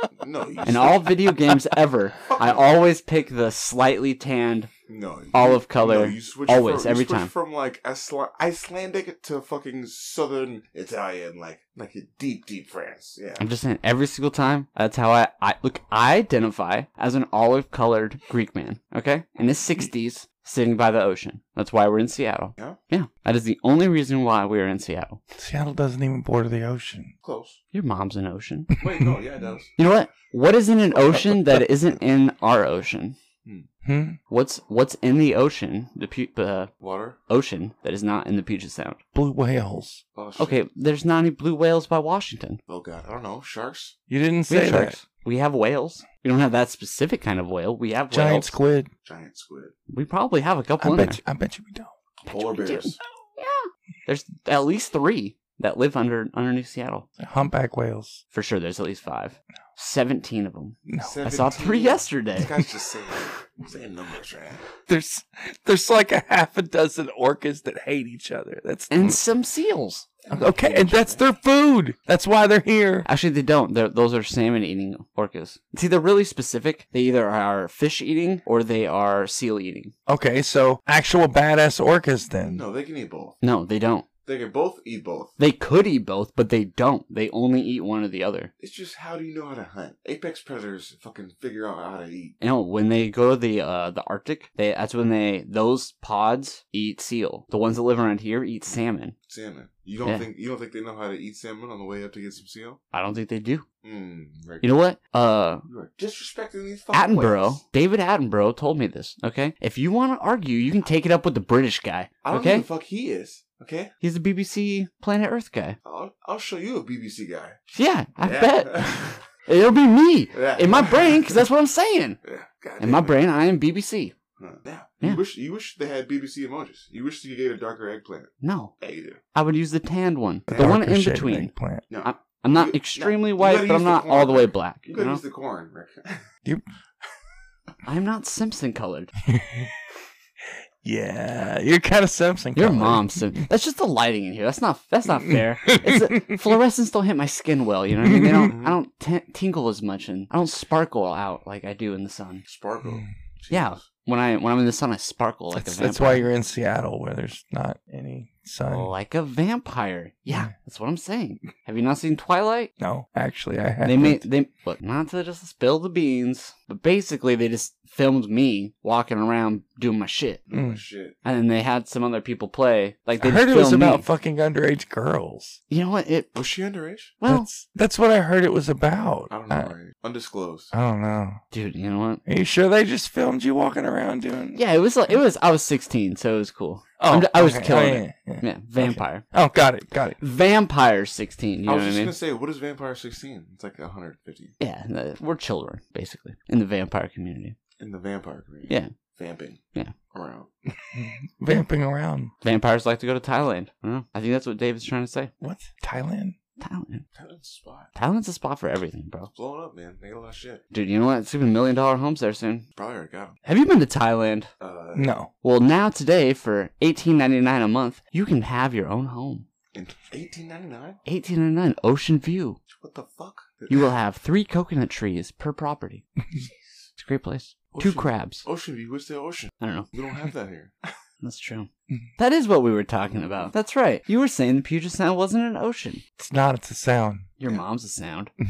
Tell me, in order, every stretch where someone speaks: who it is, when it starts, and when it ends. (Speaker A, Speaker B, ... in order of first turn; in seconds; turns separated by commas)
Speaker A: 0.1-1.1, Speaker B: 0.7-4.7, Speaker A: 2.3-2.7, Speaker A: 4.9-13.4, Speaker B: 5.3-7.3, Speaker B: 13.4-25.2, Speaker C: 25.4-27.1, Speaker A: 27.2-27.6, Speaker B: 27.7-28.7, Speaker A: 28.8-29.7, Speaker C: 28.8-29.2, Speaker B: 29.8-33.2, Speaker C: 33.8-34.2, Speaker B: 34.3-36.7, Speaker A: 36.8-37.2, Speaker B: 37.3-39.0, Speaker C: 39.1-40.0, Speaker A: 40.1-40.6, Speaker B: 40.4-42.6, Speaker A: 42.7-44.0, Speaker C: 44.1-45.0, Speaker B: 44.5-48.6, Speaker C: 48.1-48.9, Speaker A: 49.0-49.7, Speaker B: 49.9-51.2, Speaker C: 50.8-51.9, Speaker A: 52.2-53.0, Speaker B: 52.2-57.1, Speaker C: 57.2-58.2, Speaker B: 58.3-62.6, Speaker C: 60.9-61.4, Speaker A: 61.0-64.6, Speaker C: 64.9-69.2, Speaker B: 68.9-70.2, Speaker A: 70.2-71.2, Speaker C: 70.3-73.1, Speaker B: 73.0-79.9, Speaker C: 80.1-82.6, Speaker A: 82.4-83.4, Speaker B: 83.4-84.1, Speaker A: 84.2-85.4, Speaker B: 85.4-88.5, Speaker A: 88.6-92.4, Speaker B: 92.4-99.2, Speaker A: 99.3-102.8, Speaker B: 102.9-103.7, Speaker A: 103.8-104.7, Speaker B: 104.6-105.6, Speaker A: 105.7-107.6, Speaker B: 106.9-112.7, Speaker A: 112.2-113.9, Speaker B: 114.0-115.8, Speaker A: 115.8-117.6, Speaker B: 117.7-122.2, Speaker A: 118.2-119.2, Speaker A: 120.3-121.4, Speaker A: 122.2-123.2, Speaker B: 122.8-124.2, Speaker A: 124.4-129.2, Speaker B: 128.4-128.7, Speaker B: 129.3-131.5, Speaker A: 130.5-130.8, Speaker C: 130.6-131.9, Speaker A: 131.9-136.3, Speaker B: 132.0-135.2, Speaker B: 137.8-139.1, Speaker C: 139.2-139.8, Speaker C: 140.8-143.5, Speaker B: 142.6-152.4, Speaker C: 145.3-146.6, Speaker C: 148.0-148.5, Speaker A: 148.5-148.8, Speaker A: 152.5-153.9, Speaker C: 152.8-153.1, Speaker B: 153.5-156.3, Speaker C: 155.5-158.9, Speaker B: 158.7-162.7, Speaker C: 162.8-164.2, Speaker B: 163.8-170.4, Speaker A: 170.5-171.2, Speaker C: 170.5-170.8, Speaker B: 171.2-174.1, Speaker C: 173.2-175.6, Speaker B: 175.7-176.3, Speaker A: 176.3-177.2, Speaker B: 177.2-177.5, Speaker C: 177.3-179.7, Speaker A: 179.3-180.7, Speaker C: 180.7-181.4, Speaker B: 181.5-182.2, Speaker C: 182.3-184.6, Speaker B: 184.5-189.3, Speaker C: 187.0-190.2, Speaker B: 190.2-192.1, Speaker A: 191.7-194.6, Speaker B: 194.6-197.6, Speaker A: 197.8-200.5, Speaker B: 198.7-198.9, Speaker C: 200.9-202.3, Speaker B: 202.4-205.3, Speaker C: 205.4-206.4, Speaker B: 206.6-207.1, Speaker A: 207.2-207.9, Speaker B: 207.9-209.3, Speaker A: 209.3-210.6, Speaker B: 210.7-212.7, Speaker A: 212.8-213.4, Speaker B: 213.4-214.5, Speaker A: 214.6-215.1, Speaker C: 214.9-215.3, Speaker B: 215.4-219.5, Speaker A: 219.7-221.0, Speaker B: 221.1-222.6, Speaker A: 222.7-223.9, Speaker B: 223.7-226.1, Speaker A: 226.3-226.9, Speaker B: 227.0-228.5, Speaker A: 227.7-231.0, Speaker B: 229.6-229.9, Speaker B: 231.2-236.0, Speaker C: 236.2-237.3, Speaker B: 237.4-238.3